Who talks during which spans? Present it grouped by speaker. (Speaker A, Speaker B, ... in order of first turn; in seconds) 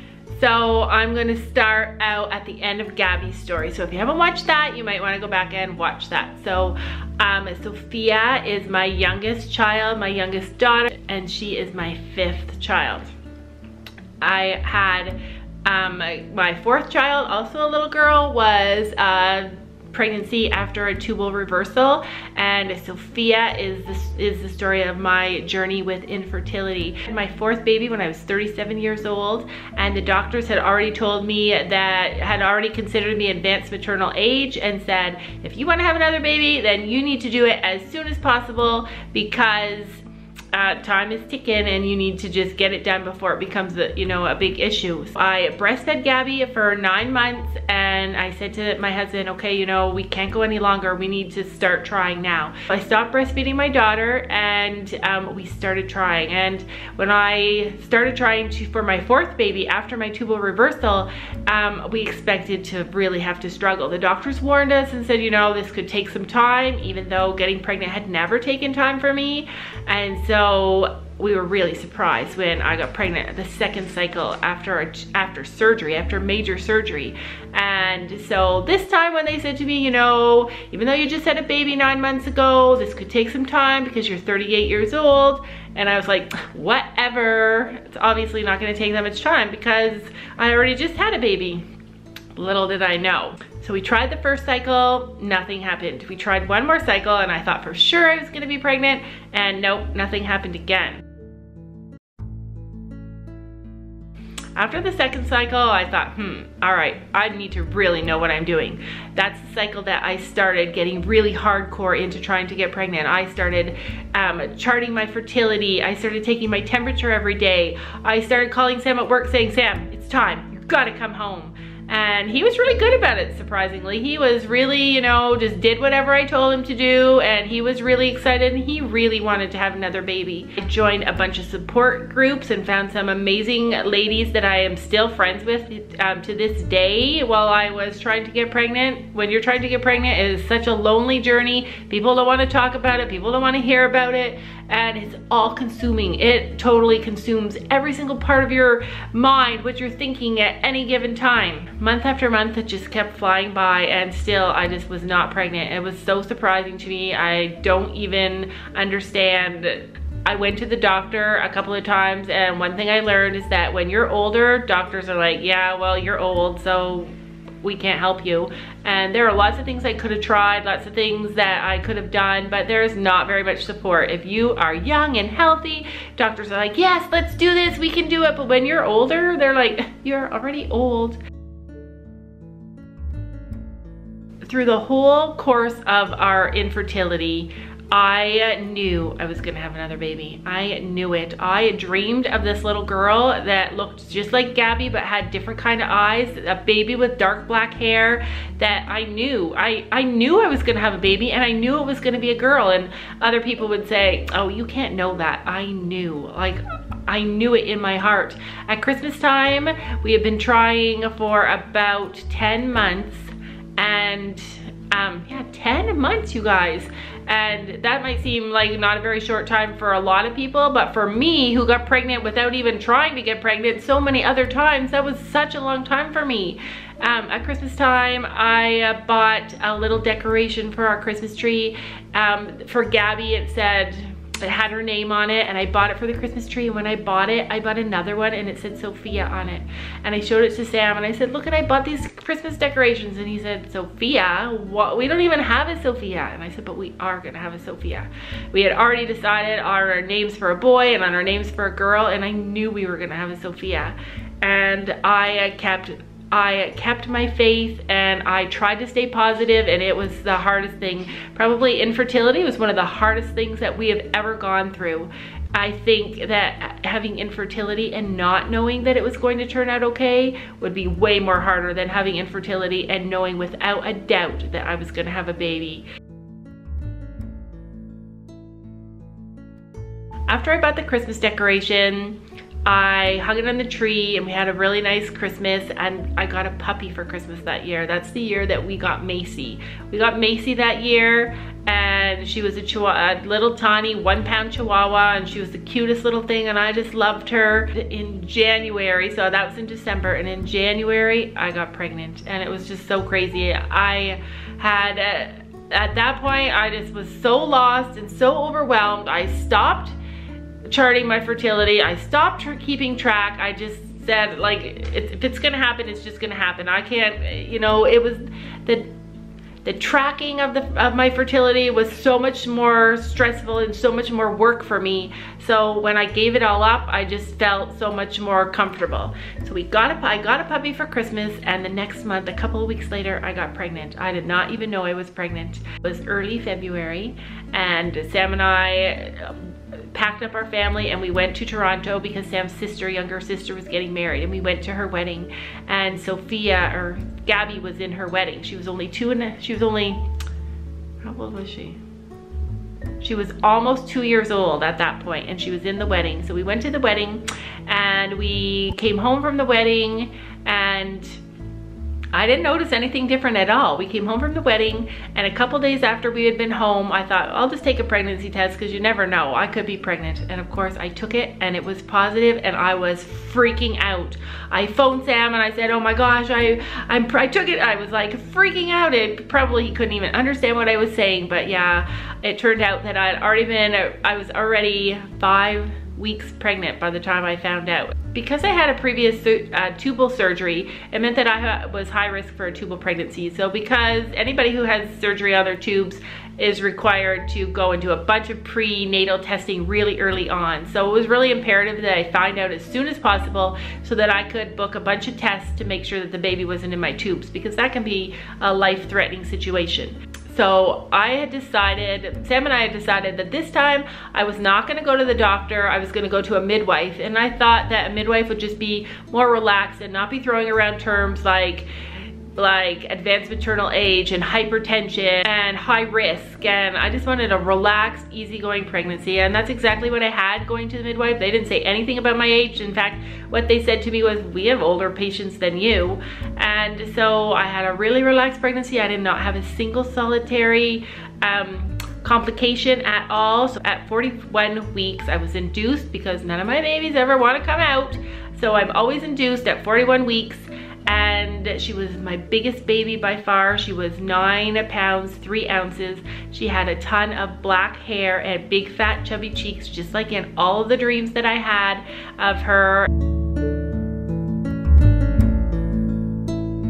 Speaker A: 0.3-13.1, 14.2-91.6, 92.3-101.0, 104.5-181.2, 184.4-275.9, 280.3-309.9, 310.6-318.9, 319.6-350.0, 351.0-351.8, 353.0-361.2, 362.1-421.7, 422.3-462.9